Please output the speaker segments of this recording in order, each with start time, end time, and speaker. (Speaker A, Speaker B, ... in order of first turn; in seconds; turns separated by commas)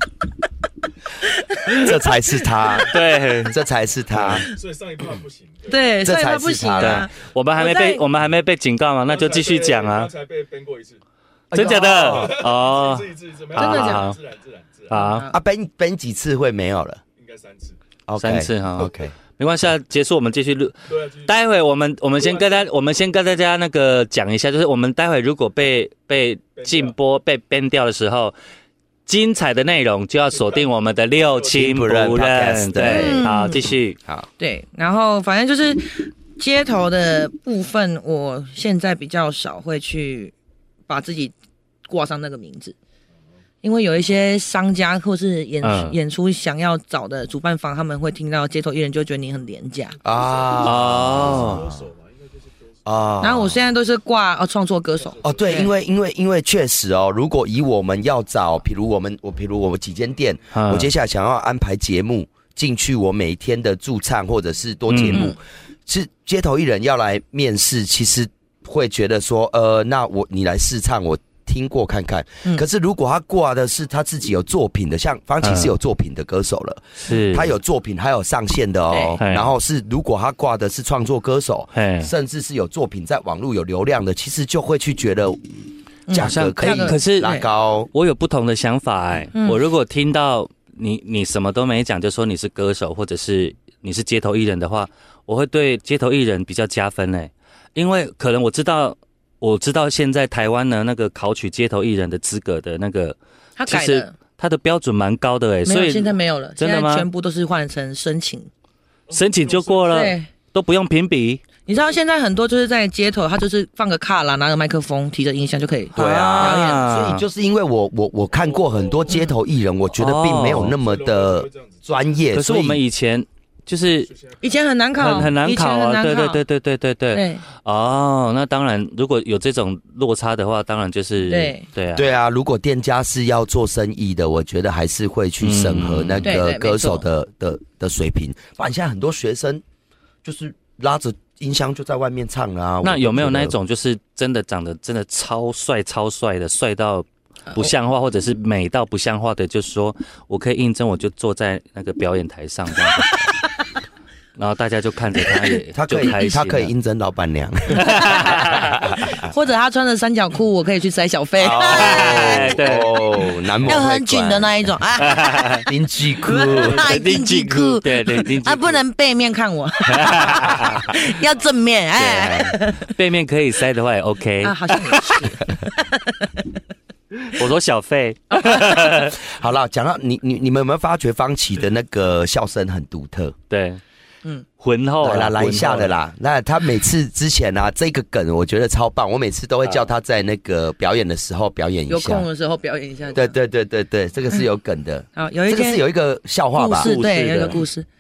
Speaker A: 1.3-2.0, Speaker B: 1.7-2.9, Speaker C: 2.8-3.6, Speaker B: 3.5-4.5, Speaker D: 4.2-5.9, Speaker A: 5.7-8.0, Speaker B: 6.0-7.1, Speaker C: 6.8-10.1, Speaker D: 9.1-11.0, Speaker B: 11.5-12.4, Speaker C: 11.5-14.2, Speaker D: 11.7-15.0, Speaker A: 13.6-14.1, Speaker C: 14.9-15.2, Speaker A: 14.9-15.4, Speaker B: 15.3-17.0, Speaker D: 17.2-17.8, Speaker B: 18.1-19.1, Speaker C: 18.2-28.3, Speaker D: 20.9-21.4, Speaker D: 22.2-22.7, Speaker D: 26.6-26.9, Speaker C: 29.1-34.0, Speaker D: 30.3-31.8, Speaker B: 31.6-33.3, Speaker A: 32.8-33.7, Speaker A: 34.4-40.3, Speaker A: 40.9-41.3, Speaker A: 41.9-42.8, Speaker A: 43.6-50.0, Speaker C: 45.6-46.0, Speaker D: 50.0-53.6, Speaker B: 50.0-51.7, Speaker C: 50.6-51.7, Speaker B: 52.9-53.6, Speaker A: 53.2-55.7, Speaker D: 55.0-55.7, Speaker B: 55.2-85.4, Speaker C: 60.5-60.9, Speaker C: 64.9-65.3, Speaker A: 65.1-65.4, Speaker C: 75.4-75.7, Speaker C: 77.1-77.5, Speaker A: 78.9-79.2, Speaker C: 79.2-79.5, Speaker C: 81.8-82.1, Speaker A: 86.1-87.5, Speaker B: 86.1-87.9, Speaker C: 86.2-87.4, Speaker C: 87.9-107.1, Speaker A: 89.3-89.6, Speaker A: 103.6-104.1, Speaker A: 105.7-108.5, Speaker D: 109.1-110.1, Speaker C: 109.1-111.4, Speaker A: 109.9-110.3, Speaker A: 111.7-116.8, Speaker C: 116.0-117.2, Speaker B: 116.0-122.8, Speaker D: 118.3-119.2, Speaker C: 120.0-120.8, Speaker D: 120.7-122.0, Speaker C: 122.3-124.1, Speaker D: 124.1-124.6, Speaker A: 124.4-126.4, Speaker C: 125.0-132.1, Speaker A: 127.1-127.4, Speaker A: 131.2-131.7, Speaker B: 131.9-139.6, Speaker C: 135.4-136.3, Speaker A: 136.2-137.1, Speaker B: 140.2-143.6, Speaker C: 142.8-153.4, Speaker C: 154.4-156.7, Speaker B: 155.7-159.2, Speaker C: 157.7-158.8, Speaker A: 159.0-162.6, Speaker B: 161.4-164.5, Speaker C: 161.7-162.9, Speaker A: 163.6-165.6, Speaker C: 165.0-165.7, Speaker B: 165.7-166.8, Speaker A: 166.2-172.9, Speaker C: 166.6-168.8, Speaker C: 169.9-170.8, Speaker C: 172.0-175.4, Speaker A: 174.4-176.5, Speaker C: 177.2-179.2, Speaker A: 178.3-179.1, Speaker B: 179.2-183.4, Speaker C: 183.5-183.8, Speaker C: 184.6-185.9, Speaker B: 185.0-192.3, Speaker A: 191.9-193.3, Speaker B: 193.1-196.9, Speaker A: 195.2-195.8, Speaker A: 196.6-197.9, Speaker C: 196.7-197.6